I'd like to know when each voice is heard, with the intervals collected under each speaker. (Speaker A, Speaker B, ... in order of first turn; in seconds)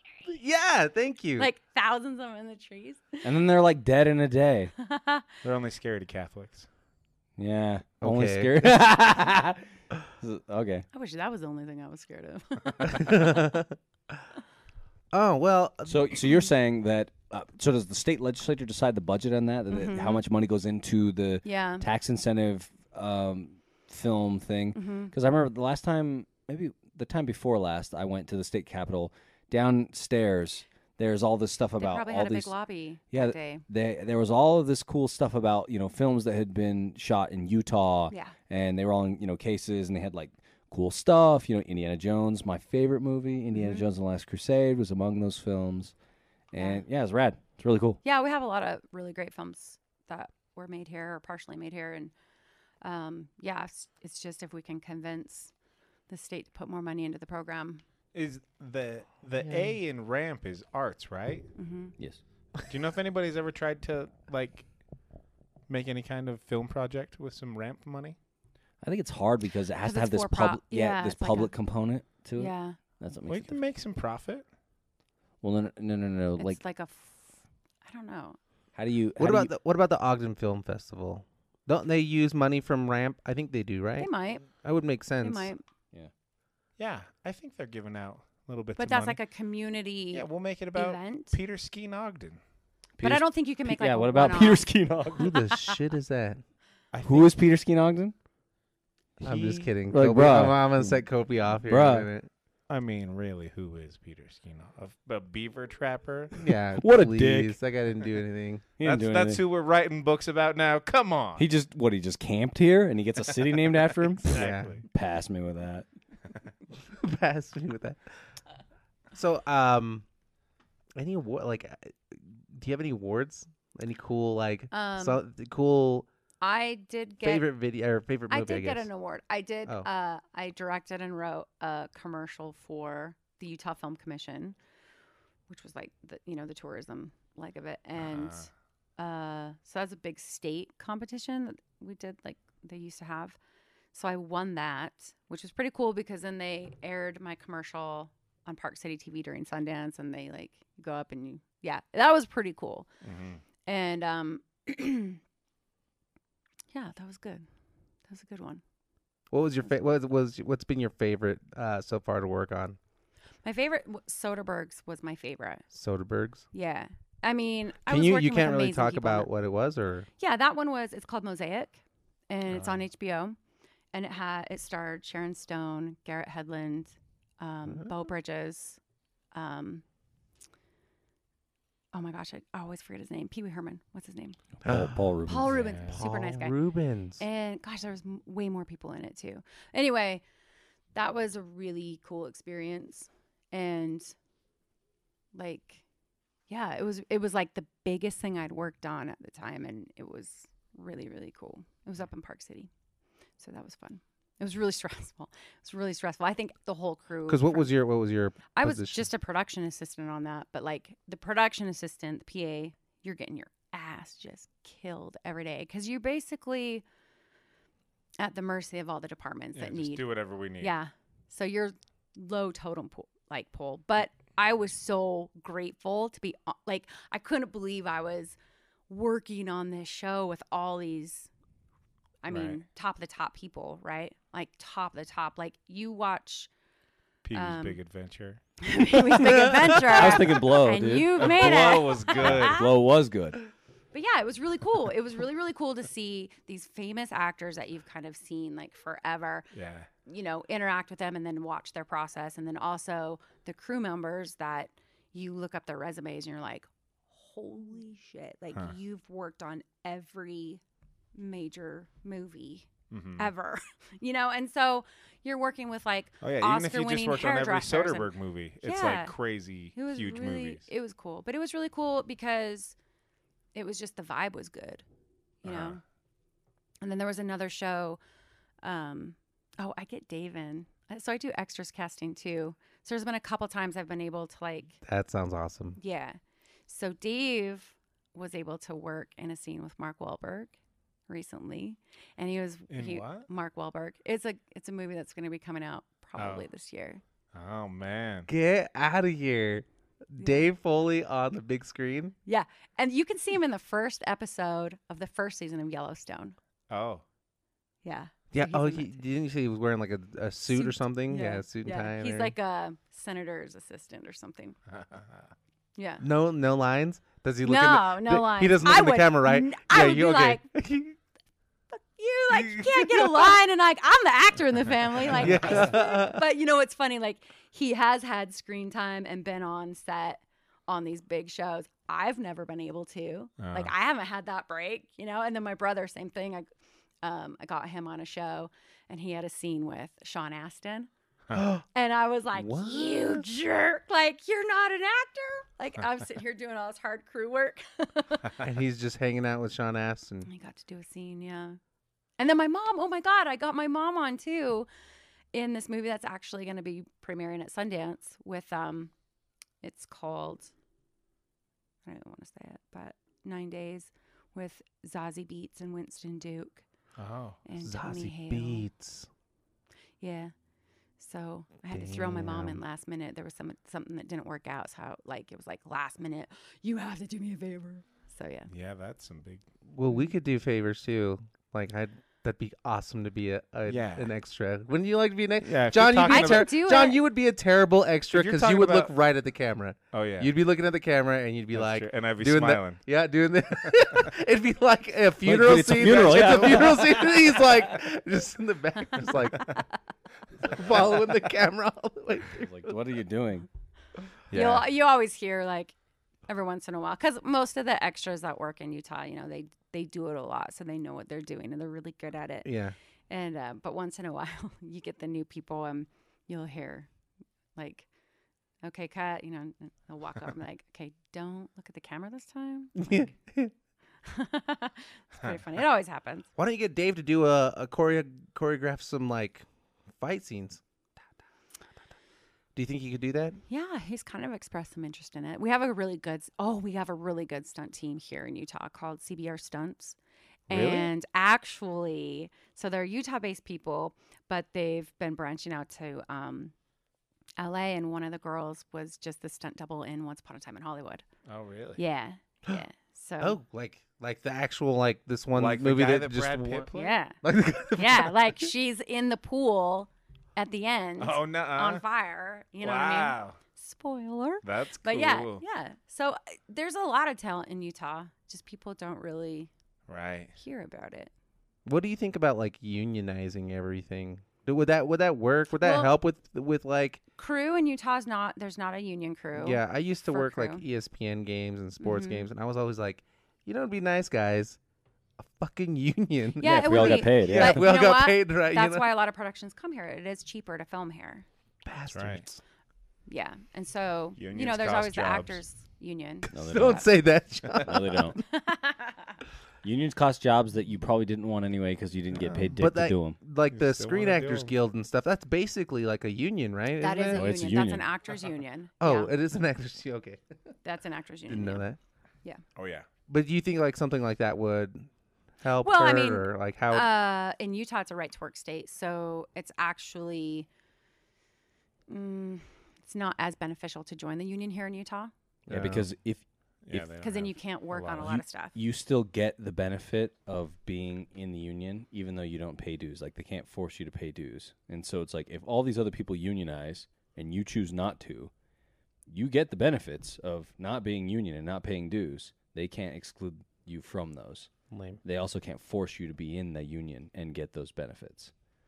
Speaker A: 0.2-1.5, 8.0-8.8, 12.9-13.8, 15.1-16.2, 59.4-59.7, 79.2-85.5, 95.2-96.4, 99.2-102.3, 106.4-108.6, 114.3-114.8, 116.8-118.0, 119.1-120.0, 121.0-126.1, 127.2-128.9, 159.3-162.8, 165.7-166.5, 167.9-170.1, 177.6-177.9, 184.6-185.1, 185.9-187.2, 207.3-209.1, 239.1-239.8, 284.8-285.8, 298.3-302.1, 308.3-312.3, 316.0-321.0, 322.3-323.3, 325.1-326.2, 341.3-341.6, 342.3-343.3, 348.4-350.3, 367.6-369.1, 371.7-372.6, 379.7-399.5, 400.4-402.7, 404.3-404.7, 412.4-412.7, 422.8-423.5, 426.4-429.4, 430.0-430.6, 432.5-433.4, 440.5-440.9, 453.2-458.4, 471.6-477.0, 479.4-484.6, 485.2-488.9, 491.6-492.4, 496.3-498.1, 502.5-507.3, 508.8-510.2, 511.3-511.8, 513.1-514.9, 515.4-516.9, 525.5-525.9, 544.7-545.0
Speaker B: 1.4-3.3, 4.8-5.3, 10.9-13.5, 19.7-20.2, 21.4-21.9, 24.7-25.1, 31.8-33.6, 43.5-43.9, 46.5-46.8, 48.0-52.1, 52.8-55.5, 56.1-57.8, 61.5-61.9, 69.8-71.5, 72.4-72.8, 76.4-78.4, 84.0-84.5, 85.2-85.6, 88.8-91.4, 93.0-95.5, 124.7-125.2, 126.4-127.5, 128.3-134.6, 135.5-143.4, 143.9-152.9, 153.7-155.2, 156.7-157.4, 158.1-158.6, 163.4-165.7, 166.5-169.3, 170.2-173.4, 173.9-178.8, 179.3-179.8, 181.9-184.4, 185.2-186.6, 187.2-190.2, 190.9-194.1, 195.3-195.8, 196.5-202.7, 203.4-207.7, 208.5-216.8, 218.2-220.1, 220.6-228.4, 228.9-231.3, 232.2-236.5, 237.3-237.8, 238.6-242.7, 243.9-249.5, 250.1-260.6, 261.1-268.1, 268.6-269.1, 269.7-272.7, 273.5-274.8, 275.4-275.8, 276.8-278.0, 278.6-284.8, 285.8-290.5, 291.1-297.0, 300.2-300.4, 302.2-306.4, 307.8-308.9, 310.5-314.6, 315.8-316.0, 317.4-320.4, 321.7-336.5, 337.0-340.9, 341.7-348.4, 350.2-351.6, 352.2-354.7, 355.3-358.9, 359.6-360.5, 361.8-366.6, 367.4-368.7, 370.0-370.3, 371.0-378.5, 386.1-387.0, 399.0-399.5, 404.3-405.7, 406.3-412.5, 413.1-416.9, 417.6-417.9, 418.6-422.8, 424.0-426.3, 433.5-439.9, 440.5-446.5, 447.4-451.0, 451.8-453.4, 456.7-457.2, 457.7-469.5, 470.4-471.1, 475.6-475.9, 477.2-480.6, 481.8-482.3, 486.4-491.2, 493.1-496.8, 498.2-499.1, 506.8-509.1, 510.6-511.6, 515.6-520.5, 521.9-525.1, 527.0-528.5
Speaker C: 3.2-4.7, 7.4-9.7, 10.2-10.9, 15.9-32.5, 33.1-45.9, 46.5-48.0, 68.8-73.6, 75.4-76.6, 78.7-79.5, 93.0-95.3, 97.0-98.1, 99.2-101.0, 101.6-102.1, 106.8-107.5, 108.8-109.4, 111.4-115.9, 184.6-185.7, 239.8-243.4, 395.2-397.4, 402.3-403.5, 486.4-487.6, 496.3-496.9, 497.5-498.2, 499.6-503.2, 507.1-507.9, 525.5-526.9, 528.0-538.3, 539.1-544.5, 545.0-548.3
Speaker D: 5.4-6.7, 58.1-61.5, 62.7-64.7, 65.7-68.2, 73.2-74.4, 86.8-89.2, 90.1-92.4, 96.9-97.3, 99.3-99.6, 102.7-106.3, 108.8-111.4, 114.2-114.8, 138.0-138.5, 153.0-153.4, 172.5-172.8, 185.5-186.0, 219.5-220.7, 232.3-232.6, 237.2-238.4, 241.1-242.7, 249.5-249.9, 262.9-263.3, 266.2-270.7, 275.4-275.8, 292.7-293.3, 296.2-296.5, 297.3-298.3, 306.7-307.0, 314.7-315.0, 333.4-333.7, 367.0-367.4, 378.5-379.4, 383.7-384.1, 385.4-386.5, 388.1-388.9, 389.9-390.3, 391.5-392.8, 395.7-397.0, 451.3-451.8, 455.3-456.9, 461.0-461.8, 462.6-463.4, 464.4-465.4, 469.9-470.3, 491.9-492.2, 494.1-495.4, 502.2-502.6, 503.5-504.5, 512.5-512.9, 526.6-528.2